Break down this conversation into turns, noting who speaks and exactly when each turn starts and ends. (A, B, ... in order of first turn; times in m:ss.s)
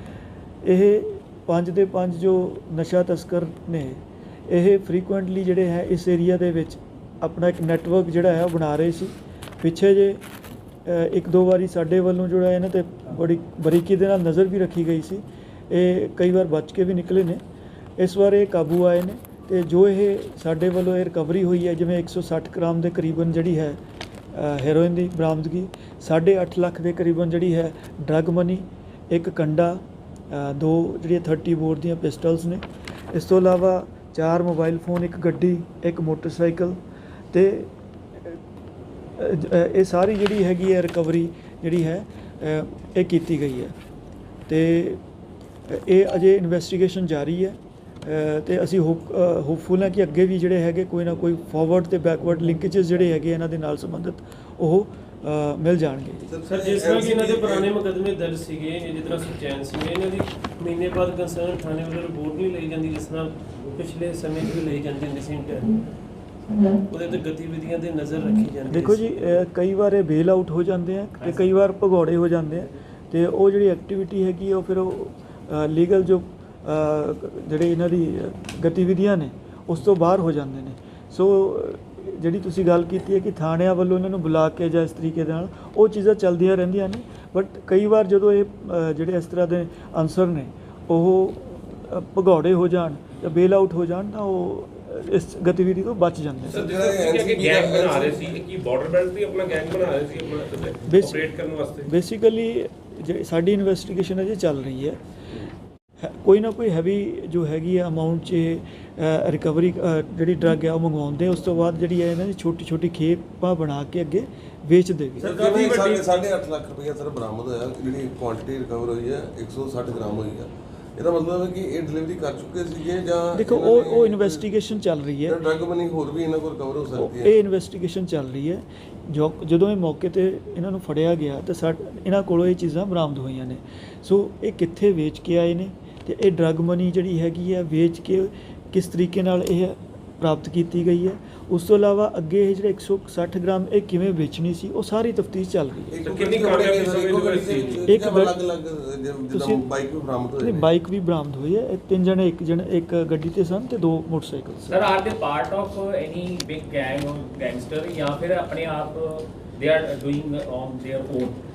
0:00.6-0:10.2 A
0:10.8-0:17.4 A
0:18.0-0:23.8 A
0:24.3-0:36.8 A
0:37.3-0:38.4 A
0:39.2-0:43.7 A
0:44.5-0:45.0 A
0:45.7-0:56.3 A
0:56.3-0:57.7 B
0:56.5-1:05.9 C
1:06.9-1:09.2 C
1:08.7-1:36.7 A
1:36.5-1:41.9 D
1:36.5-1:38.4 B
1:40.9-1:41.3 A
1:41.9-1:45.0 A
1:46.0-1:55.3 A
1:55.2-2:04.6 B
1:55.6-1:55.9 D
2:03.3-2:05.4 A
2:05.2-2:07.3 B
2:07.0-2:26.0 A
2:25.9-2:30.7 B
2:26.1-2:27.8 D
2:27.9-2:28.4 A
2:29.3-2:29.6 A
2:30.4-2:34.9 A
2:34.7-2:41.4 E